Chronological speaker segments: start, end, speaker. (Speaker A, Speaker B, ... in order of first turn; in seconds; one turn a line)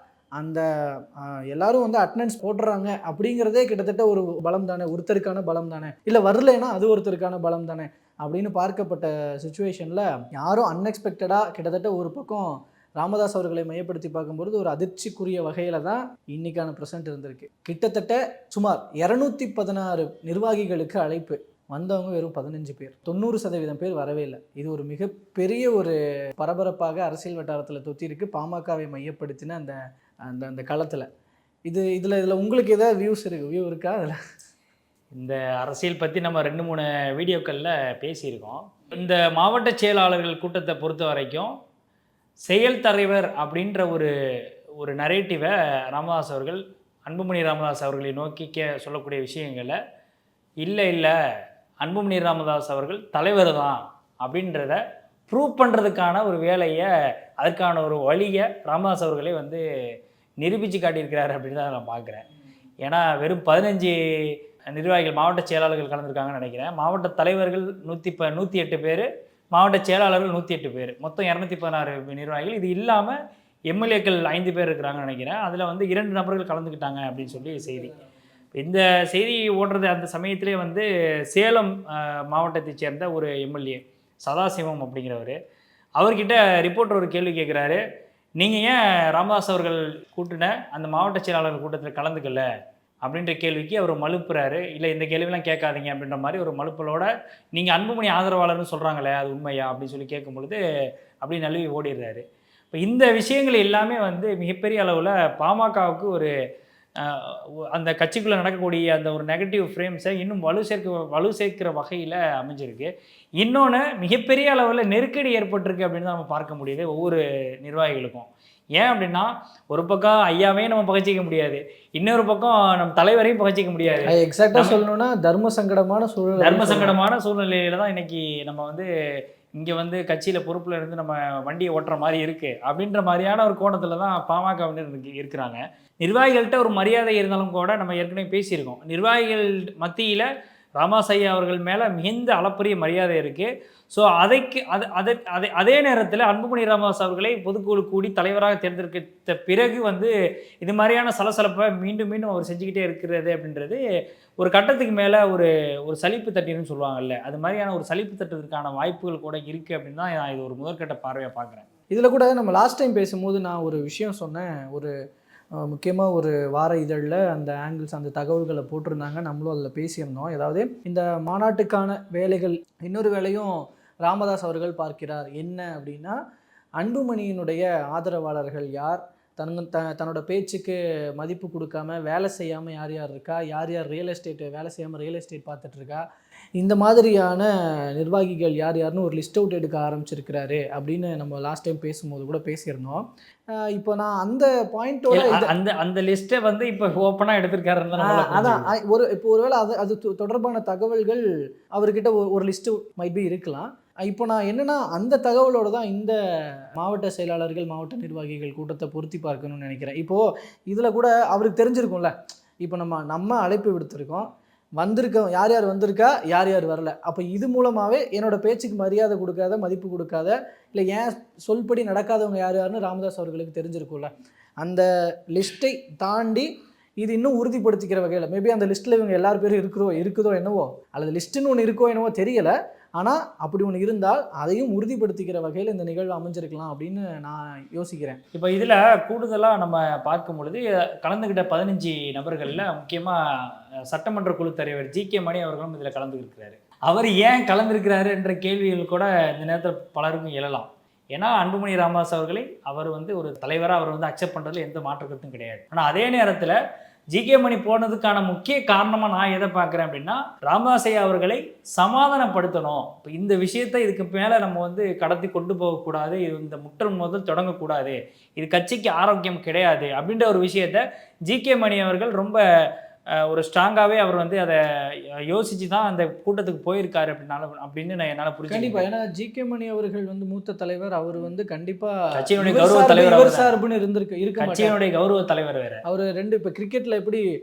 Speaker A: 0.4-29.8
Speaker A: 30.3-31.1
Speaker A: 31.7-34.2
Speaker B: 35.2-41.5
Speaker B: 42.5-44.1
Speaker B: 44.8-49.8
Speaker B: 50.6-51.1
Speaker B: 51.8-56.9
Speaker B: 57.4-59.6
Speaker B: 60.4-62.2
Speaker B: 62.8-73.2
Speaker B: 73.7-77.9
Speaker B: 78.5-85.4
Speaker B: 86.0-87.8
Speaker B: 88.4-92.5
Speaker B: 93.0-100.6
Speaker B: 101.2-106.3
Speaker B: 107.0-112.9
Speaker B: 113.4-124.8
Speaker A: 124.1-127.0
Speaker B: 126.4-128.9
Speaker B: 129.6-140.3
Speaker B: 140.8-153.8
Speaker B: 154.4-161.6
Speaker A: 161.9-164.9
Speaker A: 165.6-176.2
Speaker A: 176.8-186.0
Speaker A: 186.6-193.0
Speaker A: 193.6-195.5
Speaker B: 195.1-198.7
Speaker A: 198.0-201.2
Speaker A: 201.8-206.2
Speaker A: 206.8-214.3
Speaker A: 214.8-226.5
Speaker A: 227.0-238.2
Speaker B: 238.3-243.2
Speaker B: 243.9-256.6
Speaker B: 257.1-272.4
Speaker B: 273.2-274.6
Speaker B: 275.3-278.9
Speaker A: 278.5-284.8
Speaker B: 282.1-283.5
Speaker B: 284.4-285.8
Speaker A: 285.9-287.2